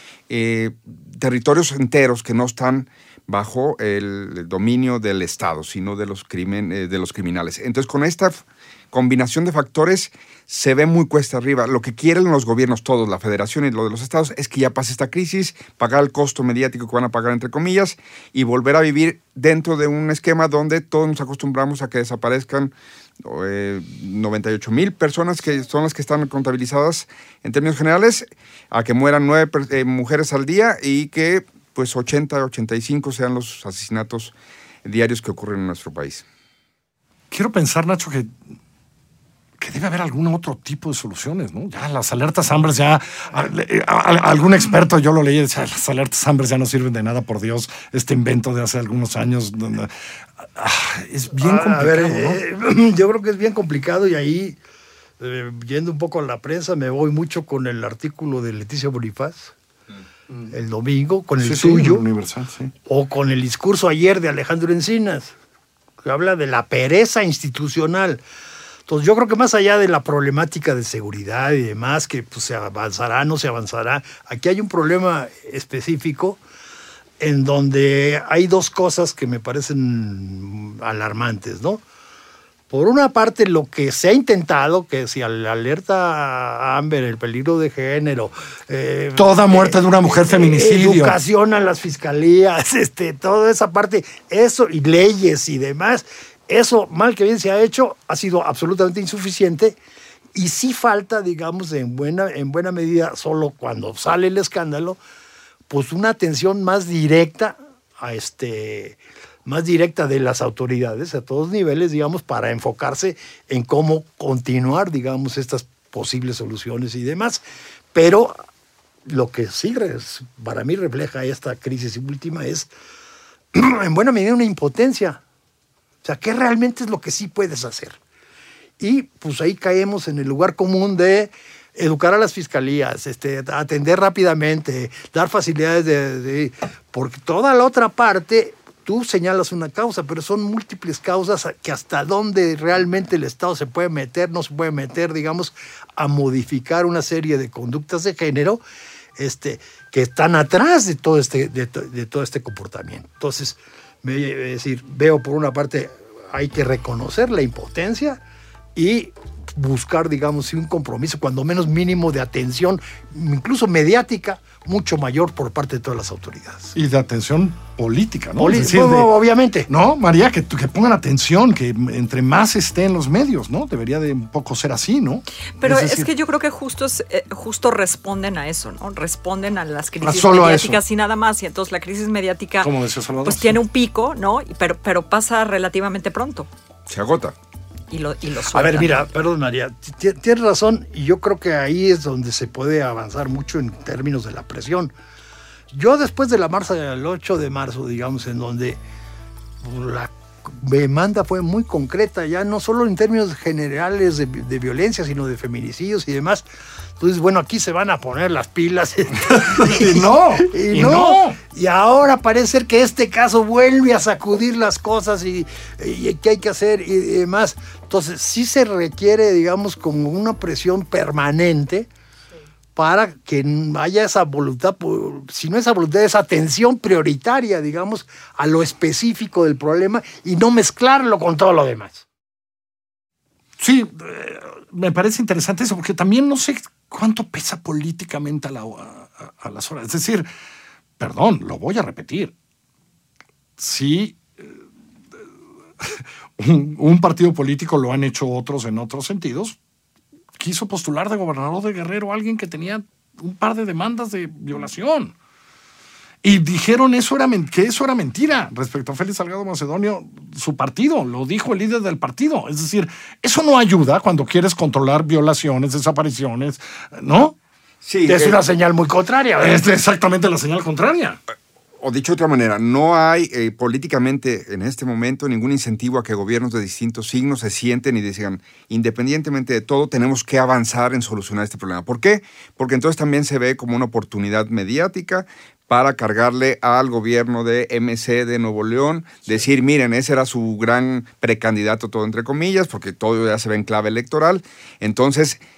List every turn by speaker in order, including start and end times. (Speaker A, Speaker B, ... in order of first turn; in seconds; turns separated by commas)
Speaker A: 0.3-36.2, Speaker B: 37.3-38.3, Speaker B: 39.6-49.9, Speaker B: 50.4-52.4, Speaker C: 51.4-54.6, Speaker C: 55.2-59.5, Speaker C: 60.5-62.0, Speaker B: 61.4-62.7, Speaker C: 62.9-65.3, Speaker C: 66.0-68.2, Speaker C: 68.8-76.4, Speaker C: 77.2-81.8, Speaker C: 82.7-99.8, Speaker B: 89.2-91.2, Speaker C: 100.3-105.0, Speaker C: 105.7-117.4, Speaker C: 117.9-118.3, Speaker C: 119.1-122.7, Speaker C: 123.5-125.2, Speaker C: 126.0-128.0, Speaker C: 128.8-148.6, Speaker C: 149.2-158.2, Speaker C: 158.8-166.8, Speaker B: 166.8-169.1, Speaker C: 168.4-169.7, Speaker B: 169.7-176.1, Speaker D: 175.6-182.7, Speaker B: 180.0-180.8, Speaker B: 182.6-183.6, Speaker D: 183.2-186.5, Speaker A: 186.9-187.3, Speaker D: 187.9-189.1, Speaker C: 188.5-194.9, Speaker C: 195.7-198.8, Speaker C: 199.6-206.4, Speaker C: 207.0-221.9, Speaker B: 209.2-211.4, Speaker C: 222.8-232.1, Speaker B: 233.6-240.3, Speaker B: 241.0-242.3, Speaker B: 243.6-244.5, Speaker B: 245.8-249.6, Speaker B: 250.4-255.2, Speaker B: 256.2-267.4, Speaker A: 267.8-268.3, Speaker B: 268.1-268.4, Speaker C: 268.2-269.6, Speaker B: 269.4-271.2, Speaker A: 271.8-295.4